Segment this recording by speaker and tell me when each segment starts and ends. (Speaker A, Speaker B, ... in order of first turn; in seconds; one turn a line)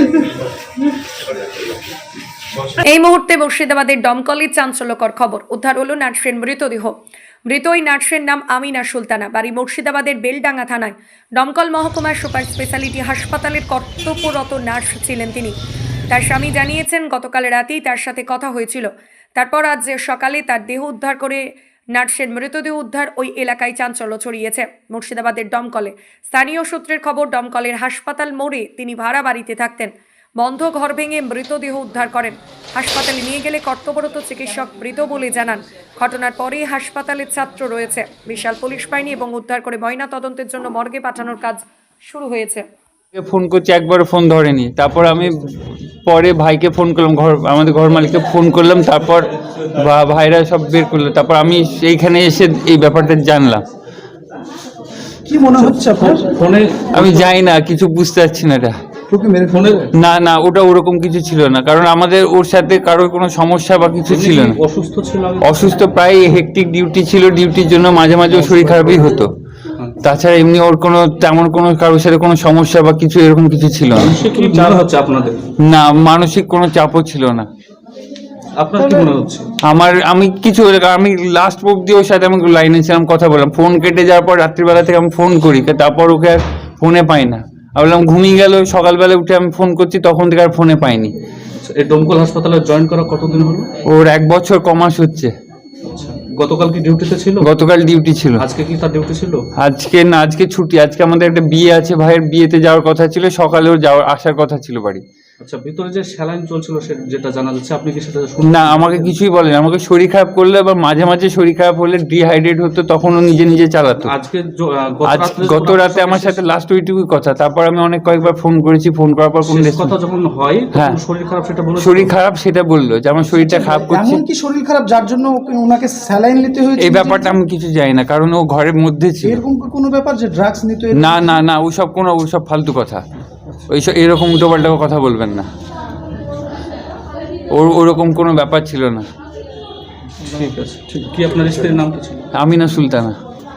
Speaker A: 2.8-6.9
Speaker A: 7.5-15.6
Speaker A: 16.1-21.4
Speaker A: 21.9-42.6
Speaker B: 43.1-53.6
Speaker C: 55.2-56.3
Speaker D: 55.6-57.3
Speaker B: 56.9-58.8
Speaker C: 59.1-59.9
Speaker D: 59.5-59.9
Speaker B: 59.9-64.6
Speaker D: 64.0-65.7
Speaker B: 65.4-69.3
Speaker D: 68.3-69.2
Speaker B: 70.0-74.4
Speaker D: 74.0-75.4
Speaker B: 75.6-77.5
Speaker D: 78.6-79.5
Speaker C: 78.8-79.1
Speaker B: 79.6-91.1
Speaker D: 91.6-93.7
Speaker B: 93.8-95.3
Speaker D: 95.9-97.5
Speaker B: 97.4-98.4
Speaker D: 98.4-99.4
Speaker B: 99.6-105.0
Speaker D: 105.4-109.1
Speaker B: 108.4-114.1
Speaker D: 114.0-116.4
Speaker B: 115.1-119.9
Speaker D: 119.4-122.1
Speaker B: 120.7-121.0
Speaker B: 121.8-124.2
Speaker C: 123.3-127.3
Speaker B: 126.8-129.4
Speaker C: 129.2-131.3
Speaker B: 130.9-133.0
Speaker B: 133.7-135.5
Speaker B: 137.5-139.1
Speaker D: 140.2-142.2
Speaker B: 142.3-143.2